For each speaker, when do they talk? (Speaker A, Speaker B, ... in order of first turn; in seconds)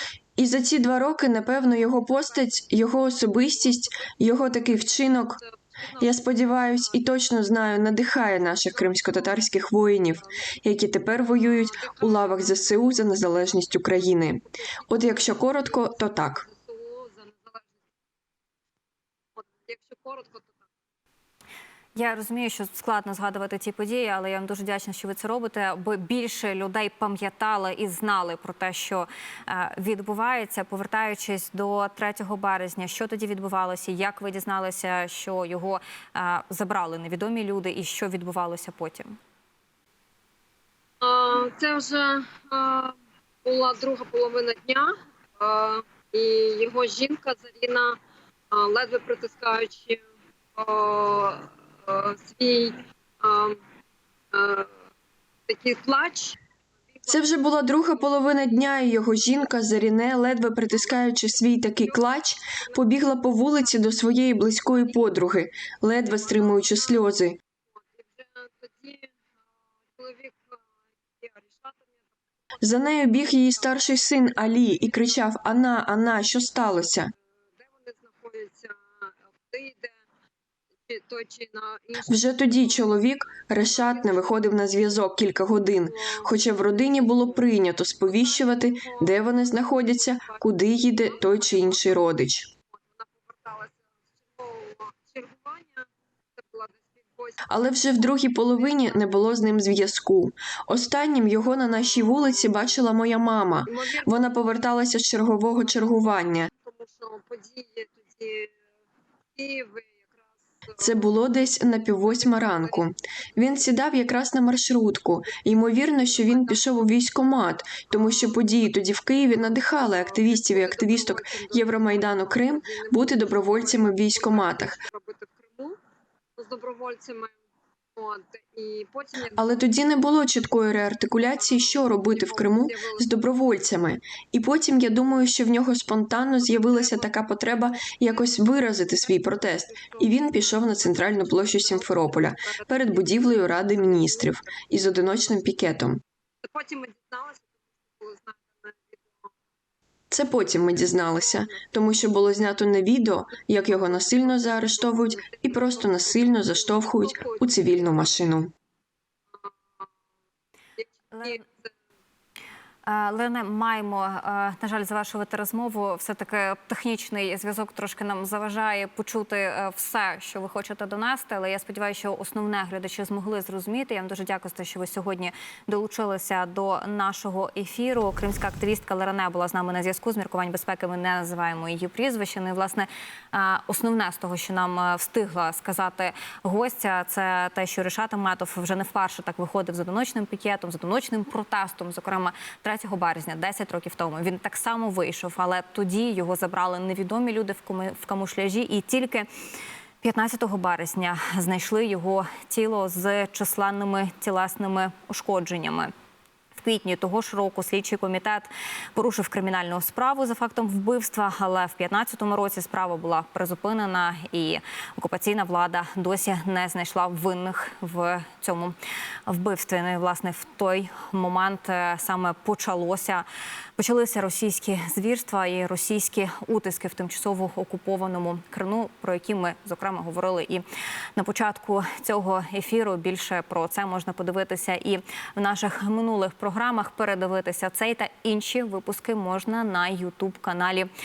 Speaker A: 0.4-5.4, 6.0-16.4, 57.1-67.4, 72.6-77.1, 82.0-92.5, 97.5-106.5, 110.8-124.8, 129.4-146.0, 150.1-158.5
Speaker B: 1.6-4.1, 4.7-7.1, 8.4-9.6, 10.1-10.6, 11.2-17.7, 19.4-20.7, 41.0-48.0, 48.5-50.0, 50.5-53.6, 54.3-54.8, 55.5-56.4, 56.9-59.5, 60.7-62.9, 63.5-65.1, 65.8-69.2, 69.9-75.4, 77.5-80.0, 80.9-84.7, 85.8-92.0, 92.7-99.3, 101.7-102.8, 103.7-104.6, 105.5-108.6, 109.3-113.7, 115.2-116.7, 117.9-118.4, 119.3-125.8, 126.4-127.4, 128.0-129.6, 131.1-133.1, 135.0-135.3, 136.4-145.3, 146.4-149.3, 150.7-152.2, 153.3-158.1, 159.3-159.9, 160.8-161.7
Speaker C: 21.9-39.1, 161.1-161.4, 162.8-199.3, 200.0-205.9, 206.5-218.8, 219.3-223.2, 223.8-230.6, 231.2-240.9